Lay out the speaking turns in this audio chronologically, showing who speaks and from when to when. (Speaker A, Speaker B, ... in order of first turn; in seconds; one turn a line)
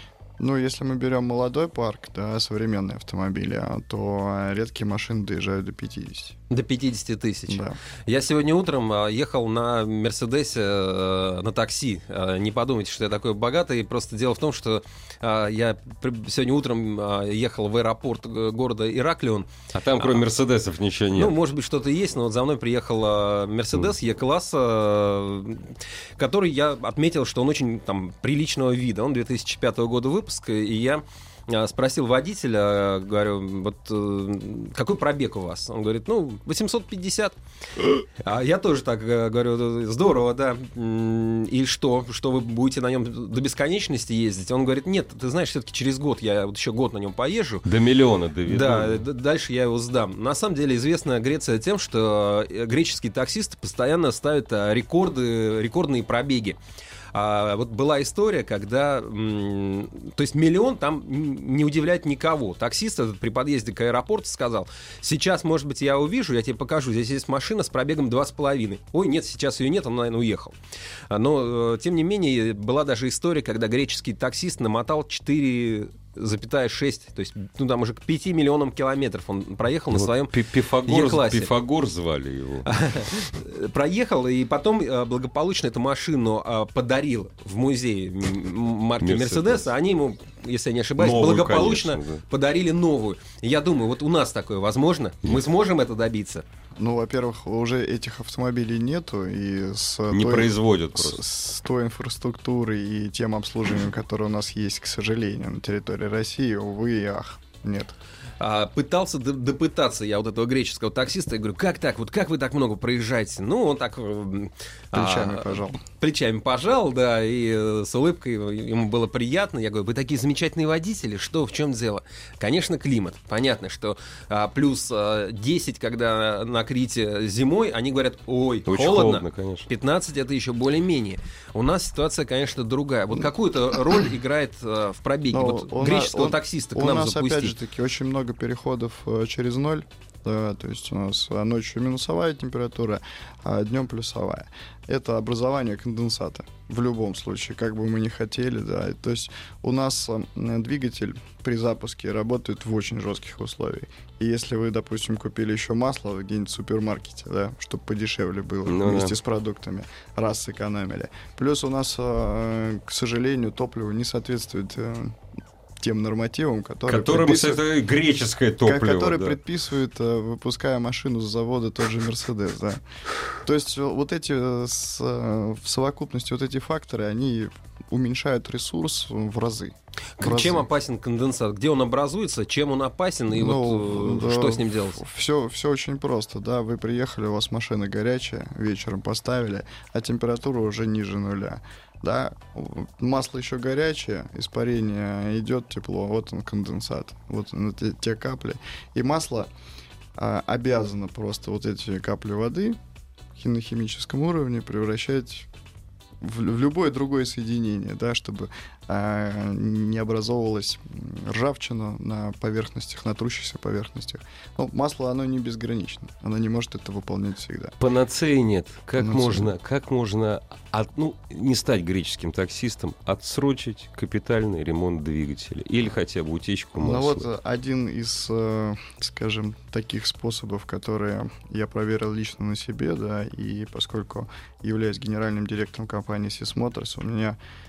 Speaker A: 0.4-6.4
Speaker B: 6.5-19.5
Speaker A: 7.5-7.8
Speaker C: 19.7-21.4
Speaker B: 21.1-37.4
Speaker B: 38.0-47.6
Speaker C: 47.6-49.0
Speaker B: 48.5-56.6
Speaker B: 57.1-70.5
Speaker B: 71.1-81.5
Speaker C: 79.9-82.7
Speaker B: 82.7-96.4
Speaker C: 89.0-89.7
Speaker C: 91.0-92.2
Speaker A: 96.8-107.9
Speaker C: 100.1-101.2
Speaker B: 108.4-137.5
Speaker A: 114.9-115.8
Speaker C: 128.7-129.7
Speaker A: 135.3-165.2
Speaker C: 158.6-159.2
Speaker A: 165.8-167.6
Speaker C: 166.9-169.4
Speaker A: 168.6-172.8
Speaker A: 173.3-180.6
Speaker B: 180.2-185.0
Speaker A: 183.3-199.5
Speaker A: 200.2-202.8
Speaker A: 203.3-205.5
Speaker A: 206.2-217.8
Speaker C: 217.8-227.3
Speaker A: 219.0-219.5
Speaker A: 226.8-237.4